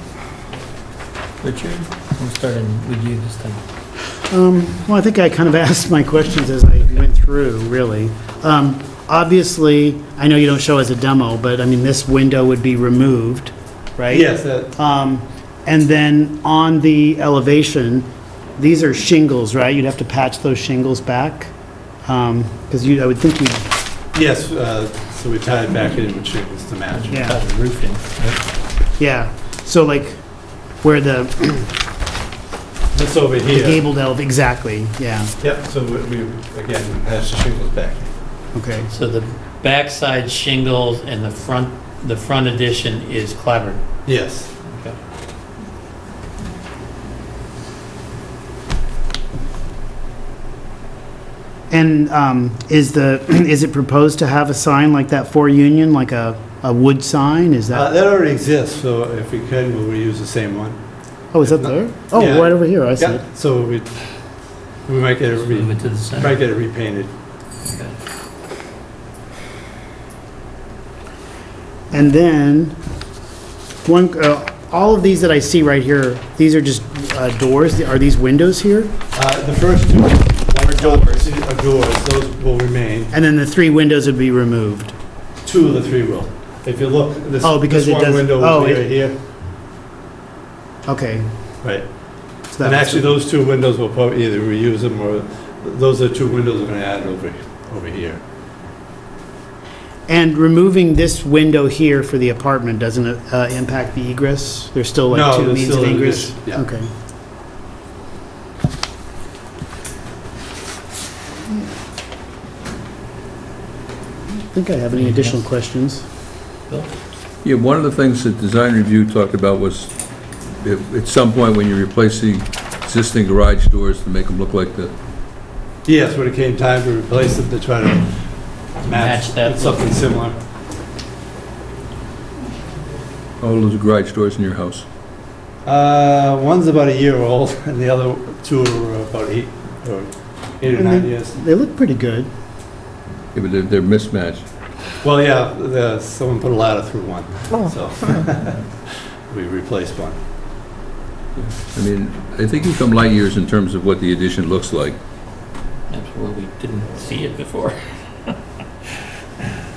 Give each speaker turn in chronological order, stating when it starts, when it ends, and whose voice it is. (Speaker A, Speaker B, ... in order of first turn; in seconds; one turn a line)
Speaker A: 1.4-3.6
Speaker B: 4.2-21.5
Speaker C: 14.1-14.7
Speaker B: 22.0-23.7
Speaker C: 24.1-27.3
Speaker A: 26.9-28.4
Speaker B: 27.1-27.4
Speaker B: 29.0-31.7
Speaker C: 32.9-33.8
Speaker B: 33.5-35.3
Speaker C: 35.4-38.1
Speaker B: 38.5-38.9
Speaker A: 38.9-43.8
Speaker C: 44.0-44.5
Speaker A: 44.6-45.0
Speaker B: 51.7-57.9
Speaker C: 57.7-63.9
Speaker B: 61.3-63.2
Speaker C: 64.8-67.1
Speaker A: 65.3-66.4
Speaker A: 67.6-68.0
Speaker B: 71.9-72.8
Speaker B: 73.8-78.9
Speaker C: 79.1-83.1
Speaker B: 80.7-81.3
Speaker B: 83.1-84.9
Speaker C: 85.4-89.2
Speaker B: 87.4-89.0
Speaker B: 90.8-91.6
Speaker C: 91.6-98.2
Speaker B: 92.5-93.2
Speaker B: 100.1-106.9
Speaker C: 105.1-106.6
Speaker B: 114.3-116.0
Speaker A: 114.9-115.4
Speaker D: 117.4-124.9
Speaker C: 125.8-130.3
Speaker A: 128.8-130.1
Speaker D: 133.4-134.8
Speaker C: 135.6-141.4
Speaker B: 140.7-142.3
Speaker D: 143.3-144.4
Speaker C: 145.0-150.2
Speaker D: 151.4-155.0
Speaker A: 155.9-158.4